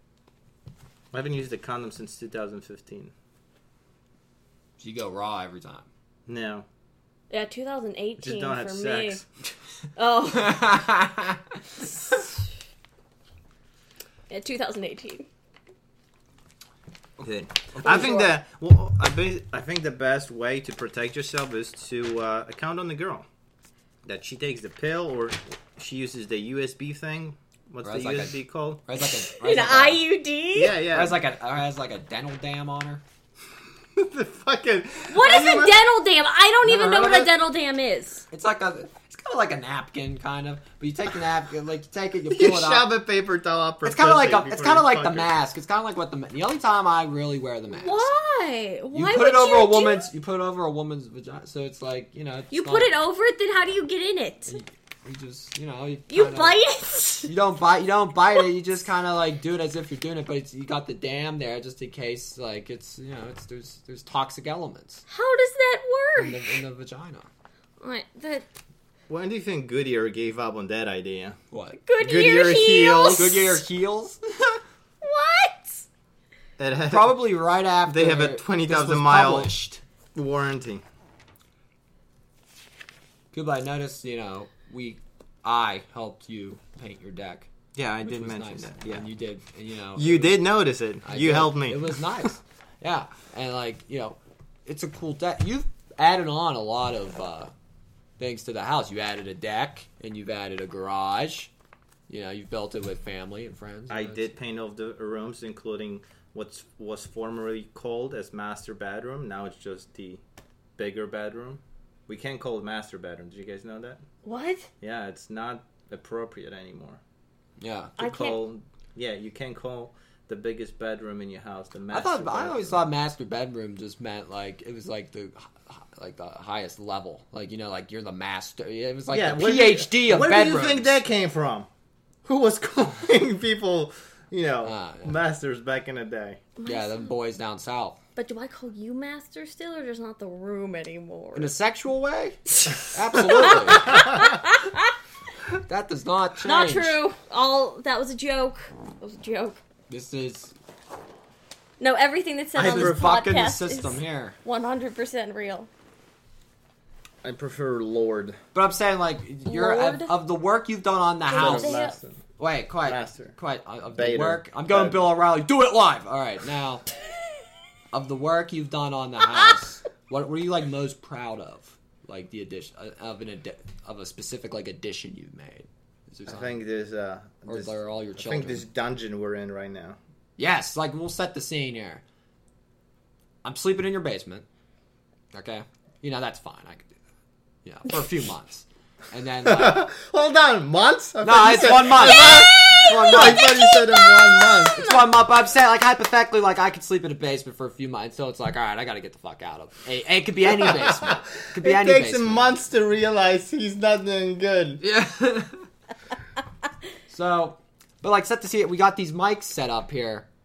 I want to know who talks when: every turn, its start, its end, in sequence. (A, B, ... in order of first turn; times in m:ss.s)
0:01.1-0:03.1 A
0:04.8-0:05.9 B
0:06.3-0:06.6 A
0:07.3-0:09.2 C
0:08.2-0:09.3 A
0:10.0-0:10.8 C
0:10.3-0:11.4 B
0:14.3-0:15.3 C
0:17.2-0:23.2 A
0:17.9-0:18.2 C
0:24.0-0:28.8 A
0:27.8-0:30.0 B
0:29.0-0:30.8 C
0:30.5-0:31.2 A
0:30.9-0:33.0 B
0:33.9-0:35.8 A
0:35.1-0:38.2 C
0:36.6-0:37.3 B
0:38.3-0:42.9 B
0:42.3-0:45.3 A
0:43.8-0:48.1 B
0:47.7-0:50.1 C
0:48.9-0:52.9 B
0:52.5-0:54.6 C
0:54.5-0:56.6 B
0:56.1-0:57.3 C
0:57.2-1:05.0 B
1:05.1-1:06.6 C
1:06.2-1:07.3 B
1:07.8-1:08.4 C
1:09.1-1:11.4 A
1:11.5-1:11.8 B
1:11.8-1:13.6 C
1:12.0-1:13.3 A
1:13.1-1:14.6 B
1:15.0-1:15.8 C
1:16.6-1:17.2 A
1:16.9-1:19.8 B
1:17.8-1:19.5 A
1:20.1-1:20.8 A
1:23.3-1:27.5 B
1:27.7-1:29.1 A
1:28.0-1:30.4 B
1:30.0-1:32.2 A
1:31.0-1:37.5 B
1:38.2-1:41.5 B
1:42.1-1:44.3 B
1:43.9-1:50.2 A
1:50.8-1:54.0 A
1:54.2-1:54.7 C
1:54.8-1:57.0 A
1:57.6-1:58.0 B
1:58.0-1:58.4 C
1:58.0-2:02.8 A
2:01.9-2:11.0 B
2:09.1-2:11.7 A
2:12.2-2:16.4 A
2:14.6-2:15.1 B
2:16.6-2:17.1 C
2:16.6-2:18.0 B
2:18.2-2:21.5 C
2:21.3-2:24.1 B
2:22.6-2:24.9 C
2:25.6-2:27.0 B
2:26.4-2:29.6 C
2:29.9-2:30.5 B
2:31.8-2:35.7 C
2:32.6-2:33.2 A
2:32.6-2:34.4 B
2:37.2-2:38.4 A
2:38.5-2:41.8 B
2:39.4-2:40.1 C
2:41.3-2:42.0 C
2:41.3-2:42.2 A
2:42.4-2:46.8 B
2:42.8-2:43.4 A
2:43.9-2:45.0 A
2:47.9-2:56.6 B
2:56.3-3:00.0 A
2:57.5-2:58.7 B
3:00.4-3:02.0 B
3:03.4-3:04.4 B
3:05.3-3:06.9 B
3:07.6-3:09.8 B
3:09.4-3:14.8 A
3:11.2-3:13.5 B
3:12.0-3:14.9 C
3:14.7-3:22.5 B
3:20.4-3:24.8 A
3:24.8-3:25.6 B
3:27.1-3:30.2 B